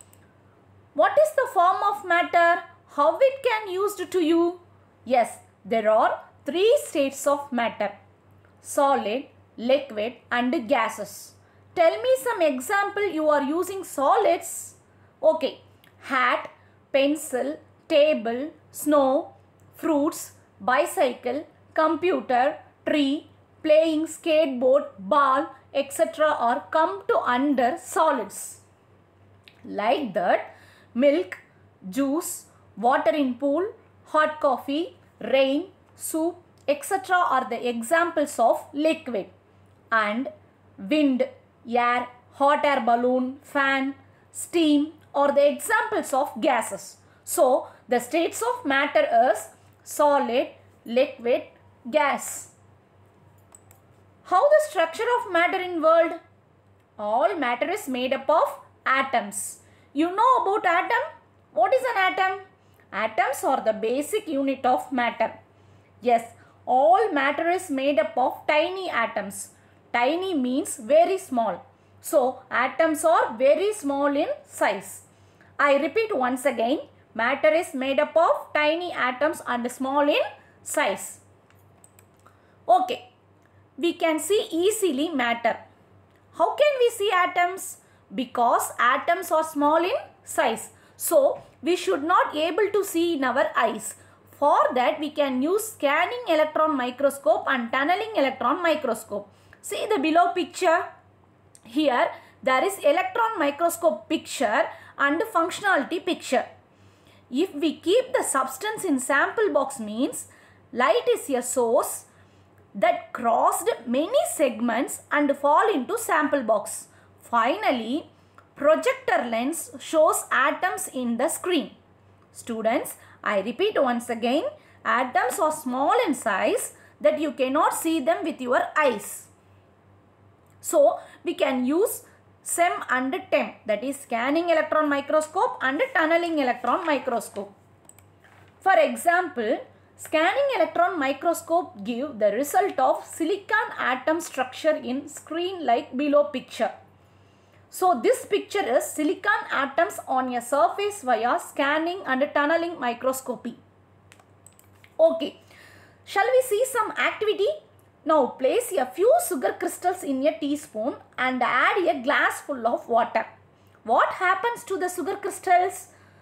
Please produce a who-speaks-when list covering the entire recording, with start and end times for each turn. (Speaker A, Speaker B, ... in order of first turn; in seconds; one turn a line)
Speaker A: 0.9-7.9
Speaker A: 8.6-28.6
Speaker A: 29.6-39.3
Speaker A: 39.9-52.5
Speaker A: 54.2-56.2
Speaker A: 57.0-65.3
Speaker A: 66.0-75.0
Speaker A: 75.6-81.2
Speaker A: 82.7-83.0
Speaker A: 83.8-85.6
Speaker A: 86.3-100.8
Speaker A: 101.7-106.5
Speaker A: 107.3-112.1
Speaker A: 112.7-121.7
Speaker A: 122.3-129.3
Speaker A: 130.6-137.5
Speaker A: 138.6-146.7
Speaker A: 147.7-153.6
Speaker A: 155.0-155.4
Speaker A: 156.1-163.3
Speaker A: 163.8-165.9